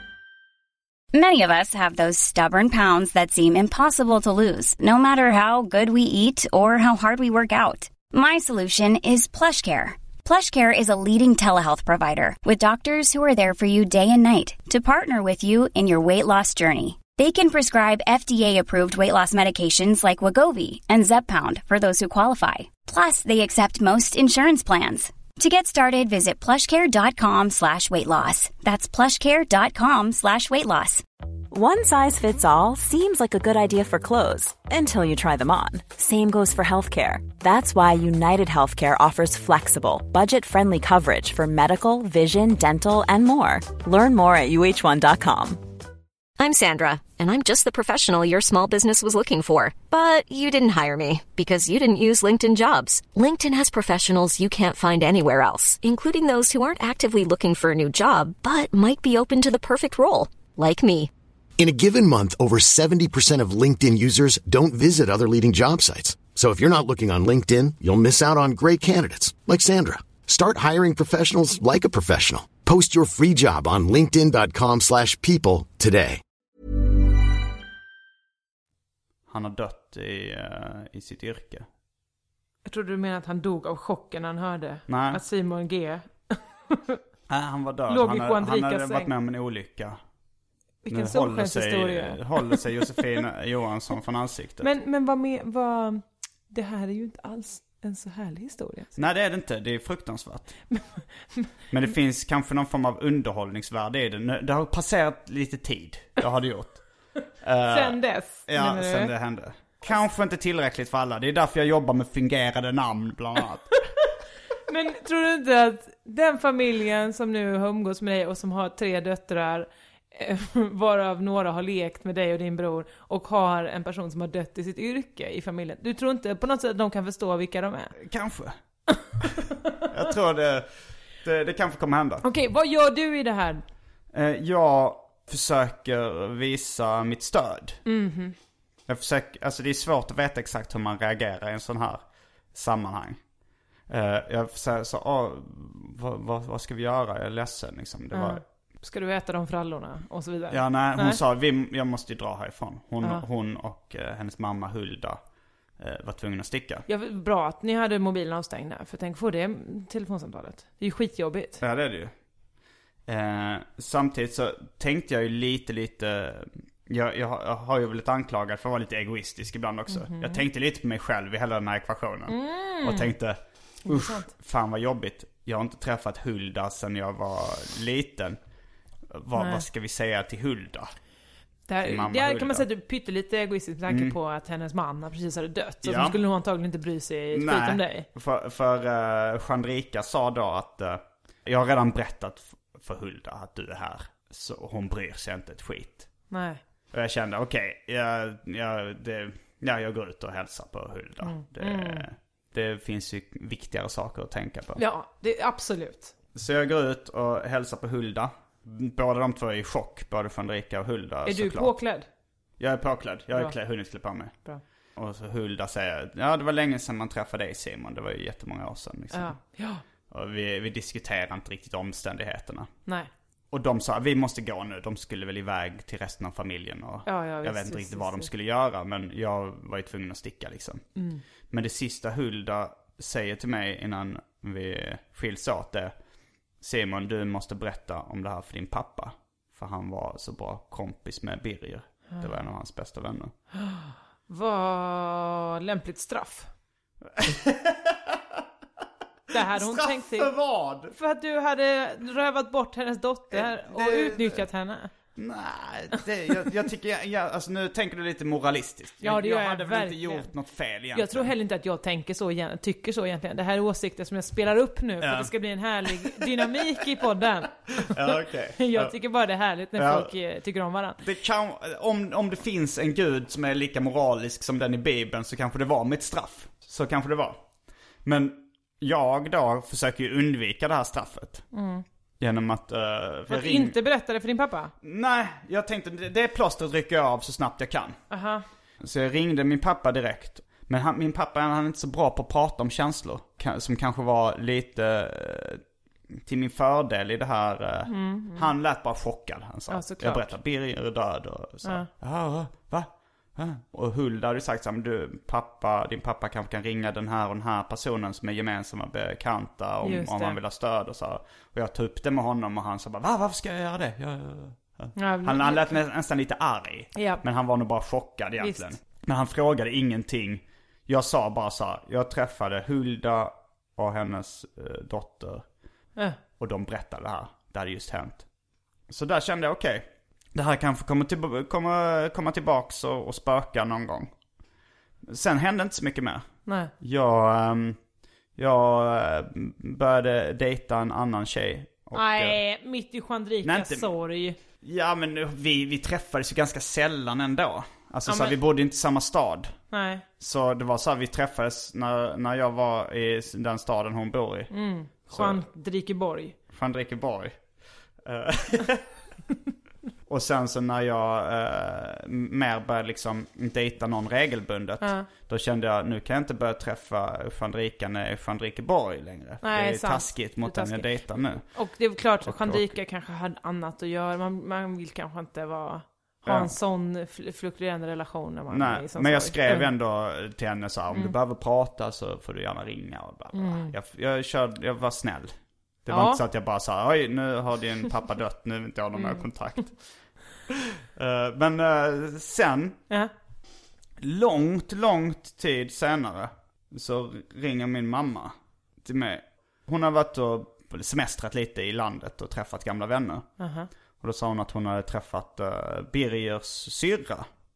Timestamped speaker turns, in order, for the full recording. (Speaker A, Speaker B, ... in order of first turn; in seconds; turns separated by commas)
Speaker A: 1.1-31.0, Speaker B: 31.5-45.6, Speaker C: 46.4-61.1, Speaker D: 61.6-76.2, Speaker E: 79.3-81.7, Speaker F: 82.7-87.0, Speaker E: 84.9-85.2, Speaker E: 87.3-90.0, Speaker F: 87.9-89.1, Speaker F: 90.8-92.6, Speaker E: 90.9-94.7, Speaker F: 94.6-98.9, Speaker E: 99.0-100.5, Speaker F: 100.7-101.5, Speaker E: 101.7-106.8, Speaker E: 107.4-113.9, Speaker F: 107.7-109.1, Speaker F: 114.7-127.9, Speaker E: 128.0-128.6, Speaker E: 129.9-130.7, Speaker E: 131.2-132.2, Speaker F: 132.2-133.6, Speaker E: 134.1-137.8, Speaker F: 137.9-138.4, Speaker E: 138.9-142.0, Speaker E: 142.5-143.2, Speaker E: 143.9-148.4, Speaker F: 148.1-151.2, Speaker E: 150.5-155.2, Speaker E: 155.8-156.8, Speaker F: 156.9-161.6, Speaker E: 161.6-162.1, Speaker E: 163.1-178.4, Speaker F: 169.9-170.4, Speaker F: 172.3-173.1, Speaker F: 173.9-174.3, Speaker E: 179.1-180.9, Speaker F: 179.4-179.7, Speaker F: 181.7-188.1, Speaker E: 181.8-182.7, Speaker E: 183.9-184.2, Speaker E: 185.8-186.2, Speaker E: 187.3-196.1, Speaker F: 196.3-196.6, Speaker E: 196.9-204.8, Speaker F: 201.2-202.1, Speaker F: 204.8-206.1, Speaker E: 206.3-211.8, Speaker F: 211.3-212.1, Speaker E: 212.6-214.3, Speaker E: 215.0-219.4, Speaker F: 219.1-219.8, Speaker E: 220.1-222.7, Speaker E: 223.5-230.8, Speaker F: 227.1-228.3, Speaker F: 231.0-231.2, Speaker E: 231.5-235.9, Speaker E: 236.6-243.3, Speaker F: 243.6-246.5, Speaker E: 247.2-248.2, Speaker F: 249.3-250.3, Speaker E: 249.4-250.9, Speaker F: 250.9-254.9, Speaker E: 253.3-254.4, Speaker E: 255.2-261.3, Speaker F: 259.0-260.3, Speaker F: 260.9-267.9, Speaker E: 265.0-265.3, Speaker E: 265.9-266.3, Speaker E: 267.8-268.9, Speaker F: 268.6-271.0, Speaker E: 269.8-270.1, Speaker E: 271.0-277.4, Speaker E: 278.0-281.5, Speaker F: 281.5-281.9, Speaker E: 282.2-283.8, Speaker F: 283.3-284.7, Speaker E: 284.8-288.0, Speaker F: 288.1-288.4, Speaker E: 288.8-295.6, Speaker E: 296.2-325.5, Speaker F: 297.9-298.5, Speaker F: 299.7-300.3, Speaker F: 309.8-310.4, Speaker F: 315.0-315.8, Speaker F: 317.0-317.2, Speaker F: 318.4-318.7, Speaker E: 326.4-328.3, Speaker E: 328.9-334.1, Speaker E: 335.1-337.8, Speaker E: 338.4-342.4, Speaker F: 342.0-344.4, Speaker E: 343.4-343.9, Speaker E: 344.6-349.6, Speaker F: 348.1-348.4, Speaker F: 349.7-350.1, Speaker E: 350.2-354.5, Speaker F: 354.5-356.4, Speaker E: 355.1-355.4, Speaker E: 356.5-357.4, Speaker E: 358.1-358.9, Speaker E: 360.1-371.6, Speaker F: 364.8-365.1, Speaker F: 369.4-379.7, Speaker E: 372.2-372.7, Speaker E: 376.2-376.5, Speaker E: 378.5-389.8, Speaker F: 383.3-383.7, Speaker F: 385.9-386.2, Speaker F: 389.0-389.3, Speaker E: 391.0-392.8, Speaker E: 394.0-403.3, Speaker F: 403.4-403.7, Speaker E: 404.0-407.3